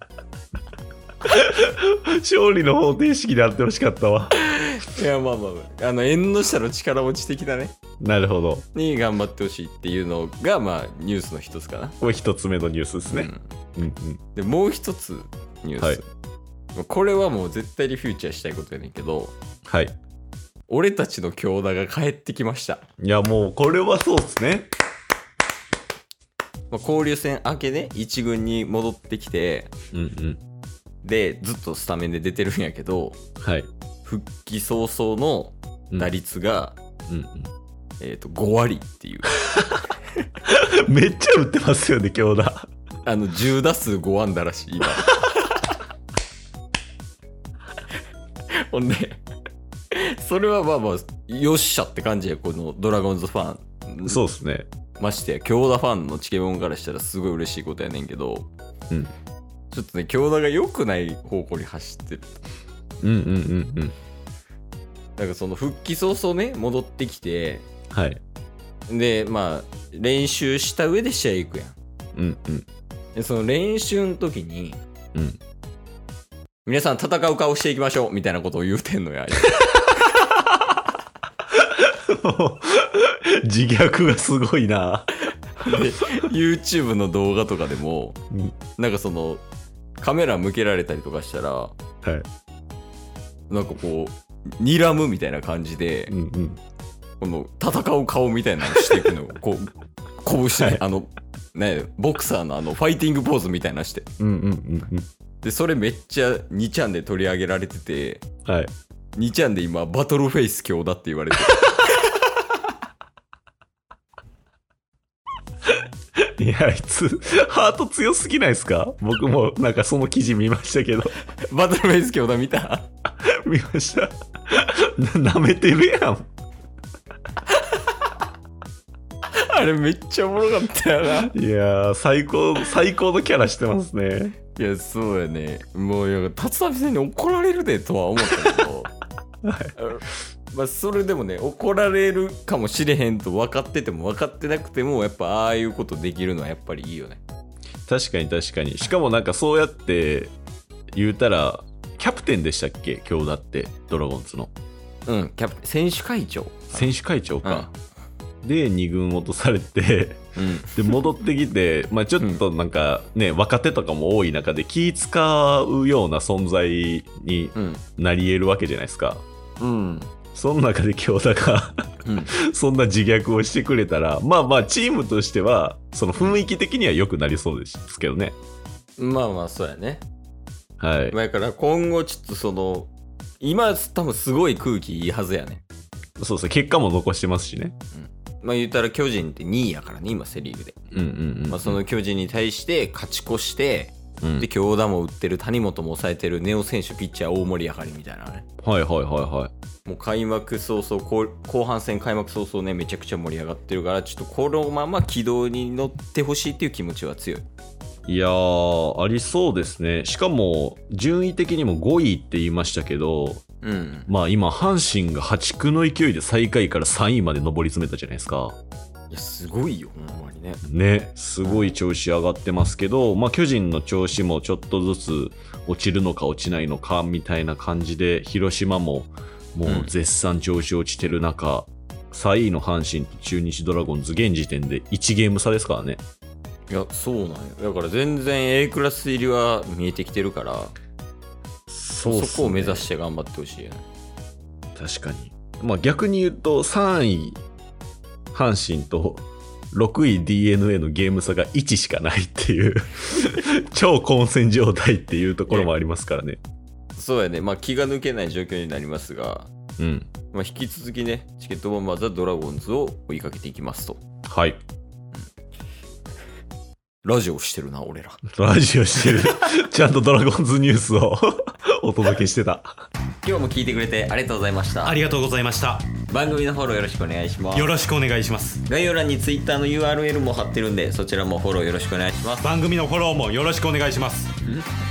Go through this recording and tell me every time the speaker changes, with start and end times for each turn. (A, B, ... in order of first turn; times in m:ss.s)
0:01.2-0:04.4 A
0:04.4-0:07.8 B
0:08.0-0:08.7 A
0:08.7-0:12.0 B
0:12.0-0:14.2 A
0:13.1-0:13.4 B
0:14.4-0:16.1 B
0:16.8-0:19.4 B
0:19.7-0:19.9 A
0:20.7-0:22.8 B
0:23.0-0:24.7 A
0:26.7-0:29.7 B
0:29.9-0:30.4 A
0:31.0-0:33.2 B
0:33.4-0:33.7 A
0:34.0-0:36.8 B
0:37.1-0:37.5 A
0:38.0-0:39.8 B
0:40.4-0:42.7 A
0:43.0-0:45.8 B
0:48.5-0:49.2 B
0:49.9-0:54.2 B
0:54.1-0:54.7 A
0:55.0-0:58.5 B
0:59.7-1:02.4 B
1:03.0-1:04.0 A
1:05.2-1:07.7 B
1:07.9-1:08.2 A
1:08.9-1:11.8 B
1:12.2-1:12.6 A
1:13.2-1:14.8 B
1:16.7-1:20.6 B
1:21.5-1:25.1 A
1:25.6-1:28.2 B
1:25.7-1:26.2 A
1:28.8-1:29.4 B
1:30.0-1:31.7 B
1:33.5-1:36.1 B
1:36.1-1:36.6 A
1:37.2-1:44.1 B
1:44.2-1:45.0 A
1:45.4-1:48.2 B
1:48.5-1:48.7 A
1:49.2-1:52.2 B
1:56.2-2:01.2 A
2:01.5-2:02.9 B
2:03.2-2:06.3 A
2:09.3-2:11.3 B
2:11.3-2:14.4 A
2:14.6-2:18.9 B
2:19.4-2:19.7 A
2:19.8-2:27.2 B
2:27.9-2:30.3 A
2:31.0-2:34.5 A
2:35.1-2:37.7 B
2:36.7-2:37.7 A
2:38.4-2:49.2 A
2:40.4-2:41.0 B
2:47.6-2:47.8 B
2:49.6-2:50.1 B
2:50.3-2:58.4 A
2:52.0-2:52.3 B
2:59.0-3:00.0 B
3:00.8-3:01.2 A
3:01.1-3:05.6 B
3:06.2-3:07.8 A
3:07.9-3:10.8 B
3:10.9-3:11.8 A
3:11.5-3:18.4 B
3:14.2-3:14.5 A
3:18.6-3:19.5 A
3:19.9-3:27.4 B
3:28.1-3:33.4 A
3:33.6-3:34.1 B
3:34.1-3:38.6 A
3:39.1-3:40.6 B
3:40.6-3:56.0 A
3:41.4-3:41.7 B
3:49.7-3:49.9 B
3:56.7-4:00.7 B
4:01.7-4:02.9 A
4:02.0-4:03.8 B
4:04.8-4:07.4 A
4:08.3-4:16.4 A
4:17.0-4:19.5 B
4:19.8-4:20.1 A
4:20.3-4:24.0 B
4:24.3-4:24.6 A
4:27.0-4:28.2 B
4:28.3-4:32.7 A
4:29.0-4:29.5 B
4:33.2-4:35.0 B
4:34.8-4:35.9 C
4:36.1-4:37.8 B
4:37.5-4:38.6 C
4:38.6-4:42.5 B
4:42.4-4:44.3 C